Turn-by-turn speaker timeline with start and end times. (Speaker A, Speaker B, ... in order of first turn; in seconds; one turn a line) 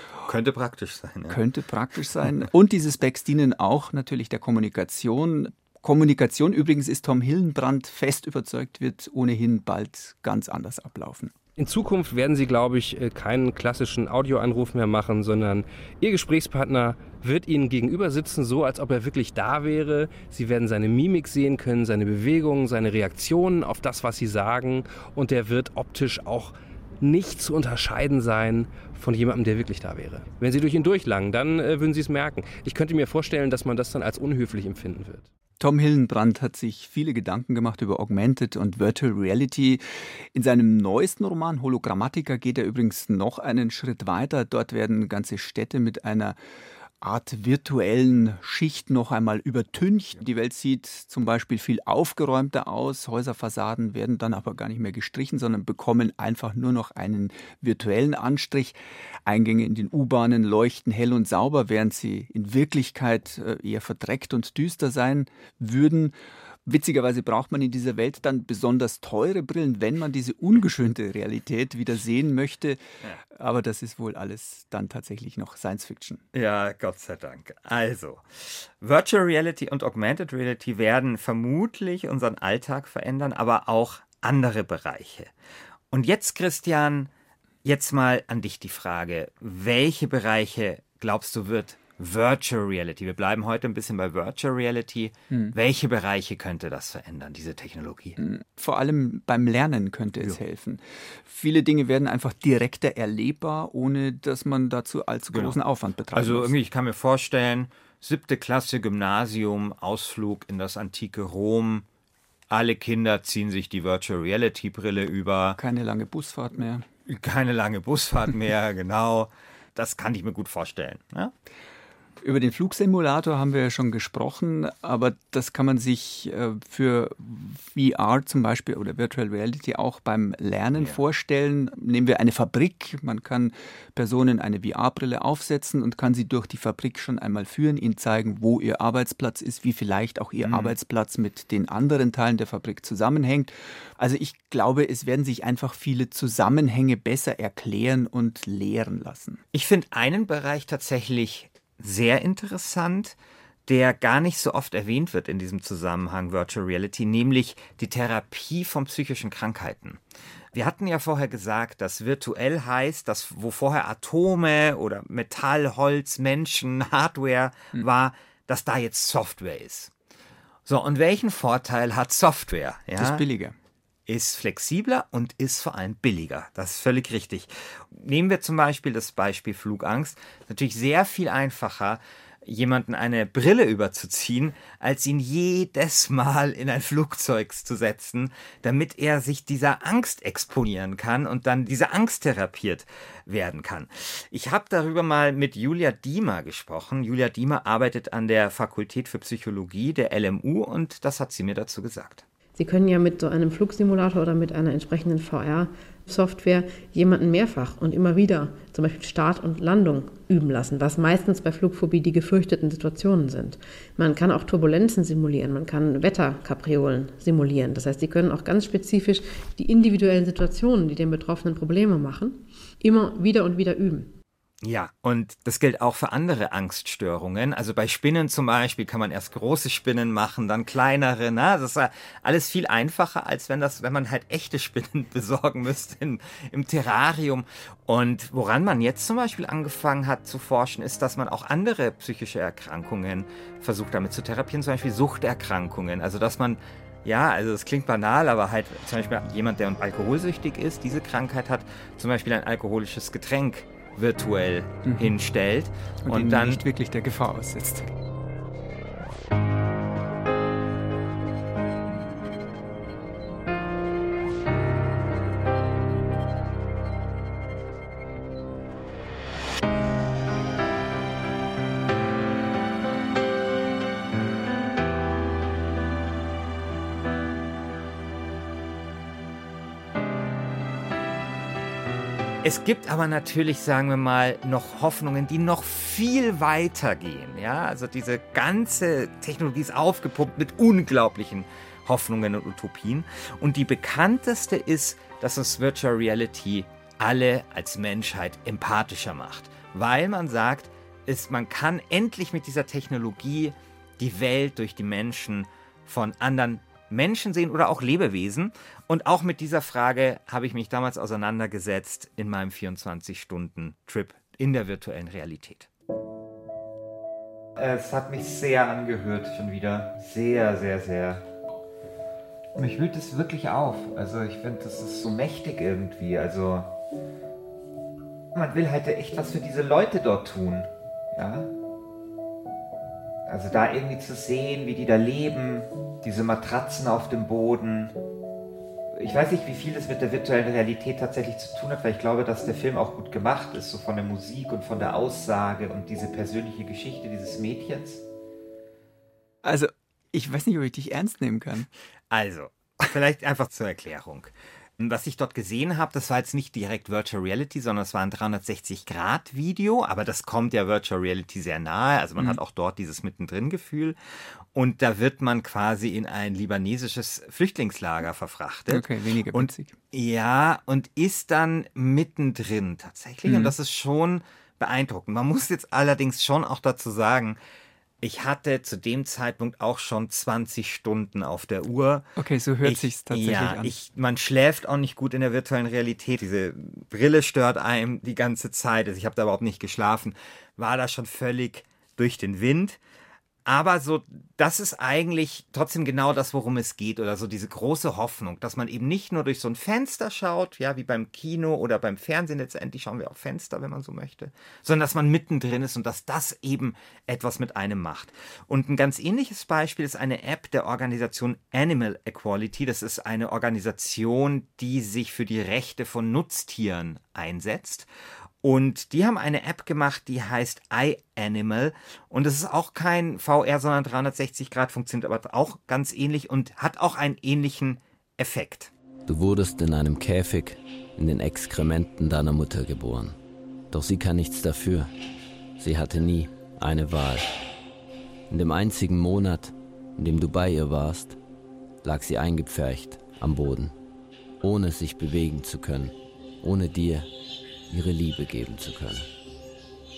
Speaker A: 0.2-1.4
Speaker B: 1.3-11.3
Speaker C: 11.6-35.3
Speaker B: 35.6-39.8
Speaker B: 40.3-46.4
Speaker B: 47.0-66.1
Speaker B: 66.7-72.8
Speaker B: 73.3-76.2
Speaker A: 76.3-85.3
Speaker A: 85.9-87.1
Speaker A: 87.6-98.2
Speaker B: 98.2-106.5
Speaker A: 105.3-105.6
Speaker A: 106.1-111.8
Speaker A: 112.5-115.6
Speaker B: 115.6-116.8
Speaker A: 117.1-121.3
Speaker B: 122.2-149.4
Speaker A: 140.4-140.8
Speaker A: 149.5-153.2
Speaker A: 153.7-160.0
Speaker A: 160.5-169.9
Speaker A: 170.7-173.2
Speaker B: 173.0-173.5
Speaker A: 174.1-202.2
Speaker D: 202.6-224.1
Speaker A: 224.6-256.6
Speaker B: 254.8-255.1
Speaker B: 256.0-257.9
Speaker A: 282.4-315.7
Speaker A: 317.6-321.2
Speaker A: 322.6-326.7
Speaker A: 328.3-331.5
Speaker A: 333.3-337.9
Speaker A: 338.9-348.0
Speaker B: 349.4-351.7
Speaker A: 352.1-363.9
Speaker A: 364.5-377.4
Speaker B: 368.7-369.8
Speaker B: 373.2-373.5
Speaker A: 378.0-382.1
Speaker B: 382.1-383.7
Speaker A: 382.6-392.8
Speaker A: 393.4-417.9
Speaker A: 418.4-428.7
Speaker E: 429.1-433.2
Speaker E: 433.7-434.9
Speaker E: 435.6-437.3
Speaker E: 438.3-441.2
Speaker E: 441.8-443.7
Speaker E: 444.4-447.1
Speaker E: 447.7-449.1